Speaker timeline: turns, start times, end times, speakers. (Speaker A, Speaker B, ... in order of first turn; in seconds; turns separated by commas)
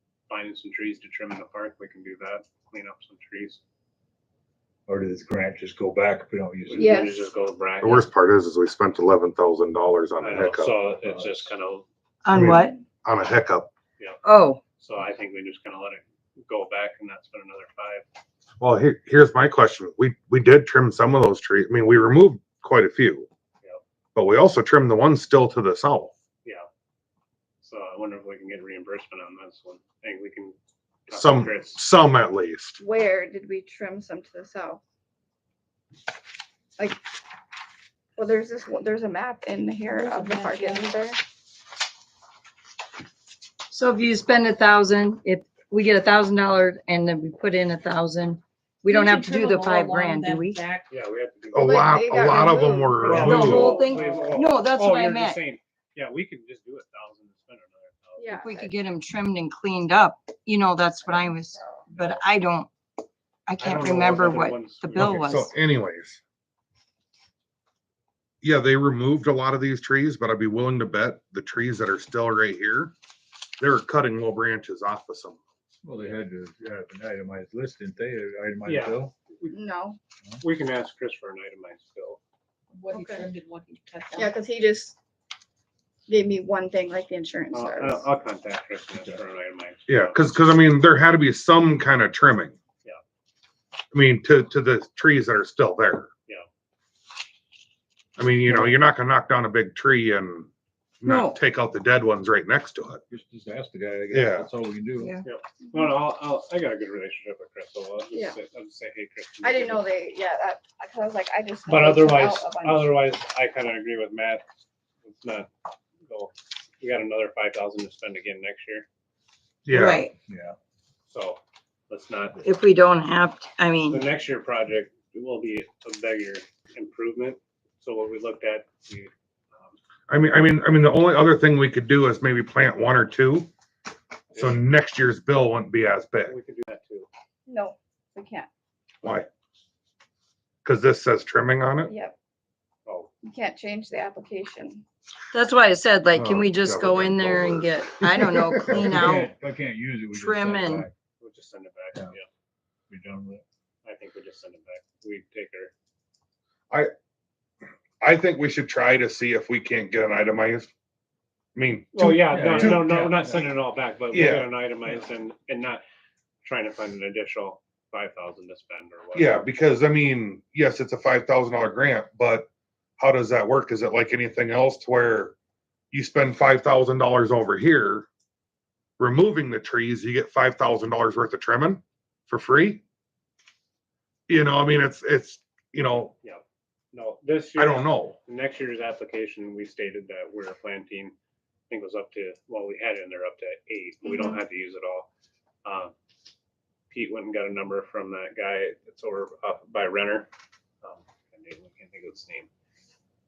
Speaker A: 0.3-3.6, Speaker B: 4.9-7.0, Speaker A: 6.7-8.1, Speaker C: 6.7-7.3, Speaker D: 7.8-10.7, Speaker A: 10.2-11.9, Speaker B: 11.0-11.5, Speaker E: 12.2-12.8, Speaker D: 12.3-13.7, Speaker E: 14.2-14.6, Speaker A: 14.8-18.0, Speaker D: 18.6-23.3, Speaker D: 24.1-26.2, Speaker A: 27.6-30.6, Speaker A: 31.1-31.8, Speaker D: 31.1-32.8, Speaker C: 32.8-34.8, Speaker C: 38.2-41.2, Speaker F: 39.8-40.9, Speaker E: 43.7-50.6, Speaker F: 48.9-50.9, Speaker A: 50.9-52.5, Speaker D: 51.5-53.8, Speaker C: 51.6-53.6, Speaker A: 53.0-58.3, Speaker E: 53.2-55.4, Speaker C: 58.2-58.7, Speaker E: 58.3-62.7, Speaker E: 63.5-65.5, Speaker A: 63.6-65.3, Speaker D: 65.0-66.2, Speaker D: 68.4-72.9, Speaker D: 73.6-75.4, Speaker B: 75.8-79.1, Speaker A: 78.6-79.6, Speaker C: 79.5-80.0, Speaker A: 80.4-82.2, Speaker F: 82.7-84.3, Speaker C: 82.9-83.2, Speaker C: 84.1-85.0, Speaker C: 86.1-88.1, Speaker A: 87.5-90.3, Speaker D: 89.9-92.5, Speaker D: 93.9-96.1, Speaker D: 98.2-100.5, Speaker B: 98.5-98.7, Speaker D: 101.0-103.0, Speaker E: 101.0-101.4, Speaker B: 103.1-105.2, Speaker D: 104.1-104.5, Speaker A: 105.2-109.9, Speaker C: 105.6-105.9, Speaker C: 109.4-113.0, Speaker A: 111.7-114.4, Speaker A: 115.0-115.5, Speaker A: 116.1-118.8, Speaker D: 119.7-120.0, Speaker E: 119.7-120.1, Speaker B: 120.2-120.6, Speaker A: 121.1-122.4, Speaker E: 122.4-124.0, Speaker A: 123.9-129.8, Speaker D: 130.1-133.5, Speaker D: 134.3-136.3, Speaker A: 134.3-134.7, Speaker A: 136.2-137.1, Speaker C: 137.5-138.5, Speaker D: 139.0-139.3, Speaker D: 140.6-141.9, Speaker C: 141.9-142.2, Speaker C: 143.2-144.8, Speaker E: 145.3-149.3, Speaker D: 146.2-147.8, Speaker B: 148.5-150.9, Speaker E: 150.1-150.8, Speaker A: 151.2-152.2, Speaker B: 152.9-153.4, Speaker A: 153.8-155.7, Speaker D: 158.0-160.7, Speaker D: 161.6-163.0, Speaker A: 161.9-165.8, Speaker B: 162.1-163.5, Speaker D: 164.1-164.5, Speaker A: 166.4-169.5, Speaker D: 169.2-172.5, Speaker D: 173.0-175.3, Speaker D: 175.9-178.1, Speaker D: 179.0-182.8, Speaker D: 184.3-186.1, Speaker A: 186.9-191.1, Speaker D: 187.6-188.2, Speaker A: 191.7-195.1, Speaker A: 195.7-195.9, Speaker A: 196.9-200.3, Speaker A: 200.8-202.5